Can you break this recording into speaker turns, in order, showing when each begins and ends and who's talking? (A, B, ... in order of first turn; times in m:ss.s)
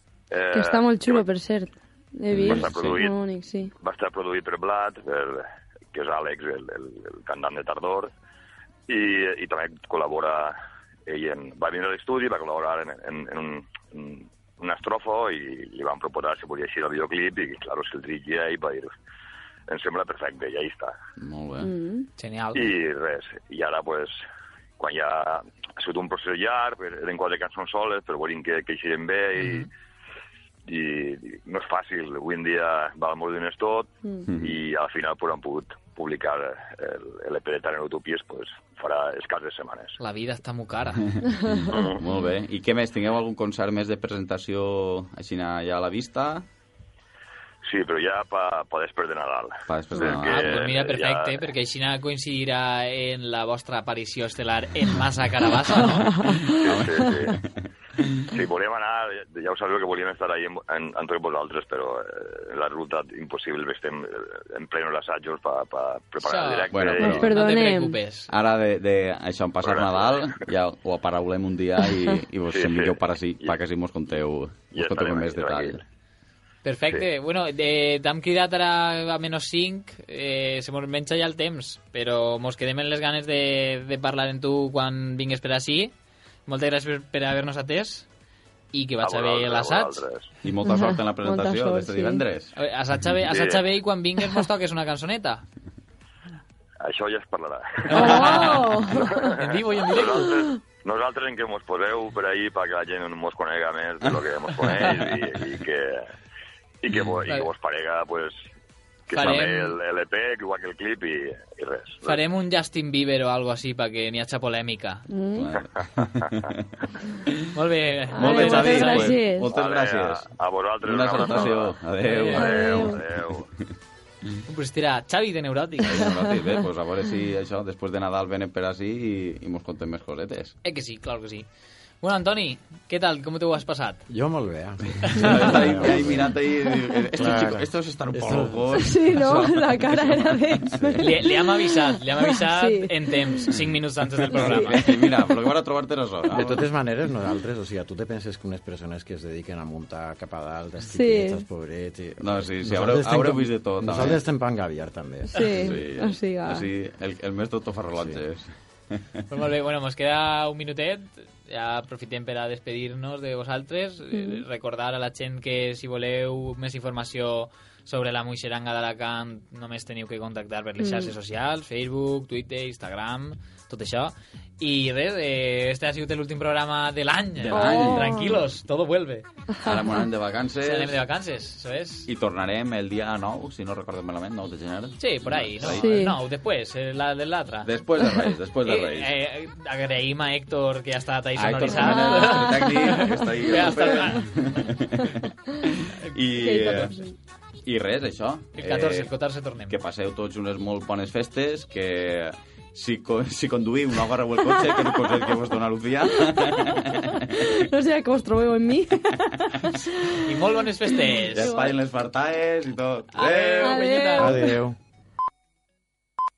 0:00.3-0:01.2 A
0:00.5-0:03.7 B
0:02.3-0:03.0 C
0:02.4-0:03.2 A
0:03.8-0:08.1 A
0:08.9-0:10.6 A
0:11.1-0:18.9 A
0:19.7-0:20.9 A
0:21.2-0:21.7 C
0:21.6-0:22.1 B
0:22.2-0:22.7 D
0:22.5-0:24.1 A
0:24.8-0:29.6 A
0:29.4-0:29.7 D
0:30.7-0:40.0 A
0:34.2-0:34.6 C
0:40.0-0:41.0 D
0:41.1-0:46.4 C
0:41.7-0:42.0 A
0:47.7-0:51.5 A
0:49.7-0:50.6 C
0:50.1-0:56.1 D
0:56.1-0:56.7 B
0:56.1-0:58.3 C
0:56.6-0:57.4 A
0:58.3-1:07.2 A
1:06.2-1:08.3 D
1:06.7-1:07.3 C
1:07.0-1:08.0 B
1:08.3-1:15.8 C
1:09.6-1:10.3 A
1:12.5-1:13.5 A
1:14.7-1:15.8 A
1:16.6-1:25.9 D
1:26.5-1:28.1 D
1:28.7-1:30.0 D
1:29.0-1:30.3 A
1:30.4-1:32.5 C
1:30.6-1:32.2 B
1:32.6-1:35.4 D
1:33.2-1:33.6 A
1:36.8-1:46.0 A
1:37.9-1:40.3 D
1:37.9-1:39.4 B
1:40.2-1:40.6 B
1:44.8-1:45.2 C
1:46.8-1:48.3 A
1:49.1-1:52.2 A
1:49.1-1:49.8 D
1:52.0-1:55.0 D
1:55.1-1:55.5 B
1:55.3-1:56.6 C
1:55.8-1:56.3 A
1:57.5-1:59.2 D
1:58.1-1:59.5 B
1:58.2-2:00.3 C
1:59.5-2:01.8 A
2:00.8-2:03.0 C
2:02.0-2:02.6 D
2:02.3-2:03.0 B
2:02.4-2:03.5 A
2:04.5-2:06.1 D
2:05.8-2:10.6 C
2:10.6-2:11.5 D
2:12.0-2:14.0 D
2:14.1-2:16.4 E
2:15.0-2:20.9 C
2:15.2-2:15.9 B
2:17.2-2:18.9 E
2:18.8-2:22.9 B
2:21.0-2:24.8 D
2:24.3-2:25.1 B
2:24.3-2:26.6 C
2:26.3-2:35.8 E
2:30.9-2:31.4 B
2:32.2-2:34.2 C
2:35.3-2:36.6 B
2:35.5-2:39.0 C
2:39.3-2:59.2 D
2:44.1-2:44.4 B
2:50.8-2:51.1 B
2:57.4-2:58.4 C
2:57.5-2:58.3 B
2:59.5-3:00.0 B
2:59.6-3:01.0 C
3:00.6-3:02.1 D
3:02.1-3:05.9 C
3:05.0-3:07.7 D
3:05.6-3:06.2 B
3:07.6-3:09.1 C
3:08.6-3:14.3 D
3:11.4-3:16.9 C
3:11.7-3:14.1 B
3:16.4-3:17.1 B
3:17.6-3:19.1 C
3:18.6-3:19.8 D
3:19.7-3:27.5 C
3:24.5-3:25.3 B
3:26.3-3:31.7 B
3:30.2-3:31.6 D
3:31.3-3:34.2 C
3:33.1-3:34.4 D
3:33.6-3:34.6 B
3:34.2-3:34.8 E